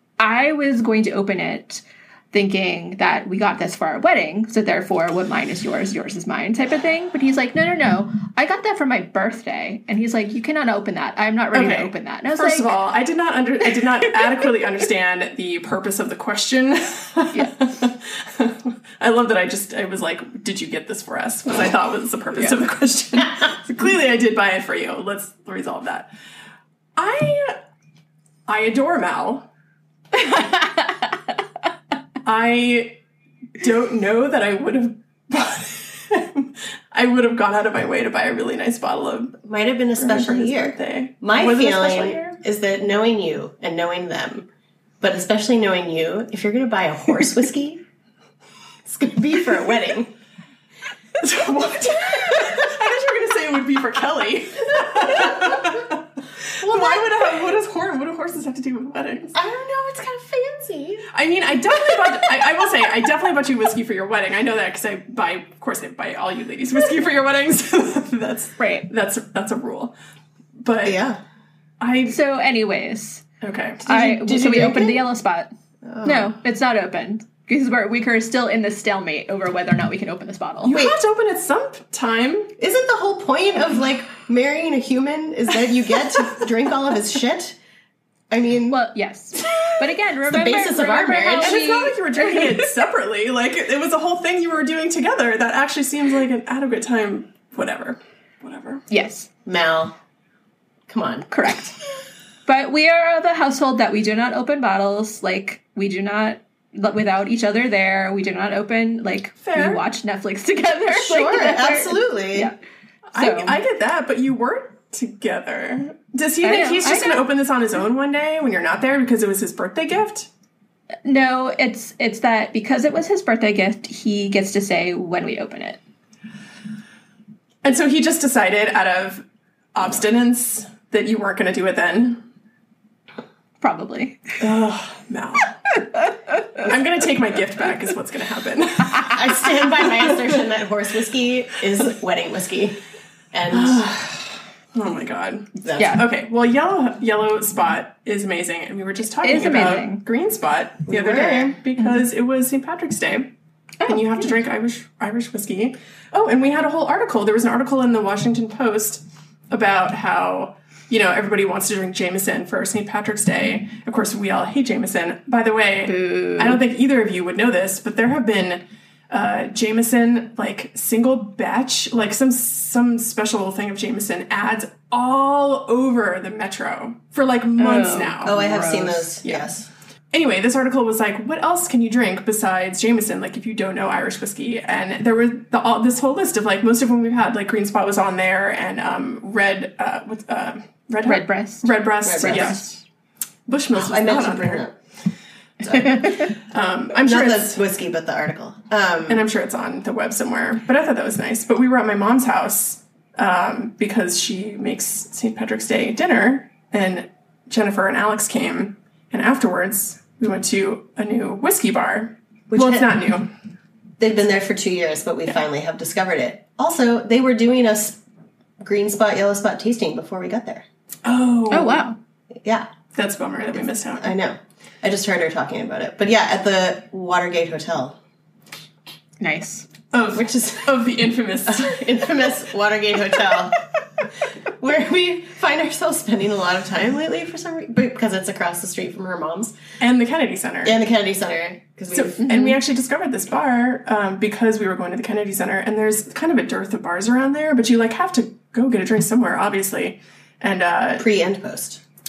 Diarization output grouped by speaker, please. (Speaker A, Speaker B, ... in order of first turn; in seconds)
Speaker A: 0.2-12.8, 30.1-31.1, 68.6-68.9, 72.1-73.2, 73.9-75.5, 76.0-80.8, 88.7-92.7, 98.9-99.3, 101.3-101.8, 102.5-112.6, 113.2-113.6, 116.4-117.2, 121.0-125.8, 133.6-134.3, 135.8-136.7, 145.8-146.0, 149.2-150.0, 153.8-154.4, 165.9-166.6, 177.6-179.1, 191.1-192.8, 195.7-196.3, 221.5-222.0, 229.2-229.7, 242.2-242.6
Speaker B: 11.5-26.1, 27.0-27.6, 28.5-29.5, 32.2-33.0, 33.6-39.4, 40.0-42.4, 51.2-59.4, 61.1-69.9, 70.6-71.0, 71.8-72.2, 73.4-74.0, 80.6-82.5, 91.4-98.8, 109.4-109.8, 113.1-120.3, 127.6-129.2, 129.8-132.2, 134.4-135.6, 136.6-139.5, 143.5-153.3, 153.9-178.3, 180.1-192.6, 193.5-194.7, 196.5-197.6, 199.1-213.3, 221.1-221.8, 222.9-224.1, 229.9-231.9, 239.8-240.8, 241.9-251.1
Speaker C: 39.4-44.5, 45.0-47.8, 48.9-50.1, 52.1-52.6, 54.9-55.5, 56.6-57.5, 59.3-61.1, 61.9-62.4, 70.8-71.2, 73.9-75.0, 75.8-76.3, 80.7-81.0, 82.6-87.6, 88.3-88.8, 90.2-91.6, 99.5-100.0, 100.9-101.3, 110.9-112.5, 139.0-142.8, 143.3-143.8, 145.6-146.0, 150.9-151.6, 178.2-179.7, 192.0-192.7, 193.7-194.8, 195.6-196.3, 197.0-199.3, 212.5-212.9, 214.0-218.0, 218.6-220.7, 222.4-222.7, 223.6-228.0, 230.1-230.8, 231.5-233.6, 234.4-239.5, 240.6-242.2, 251.0-251.8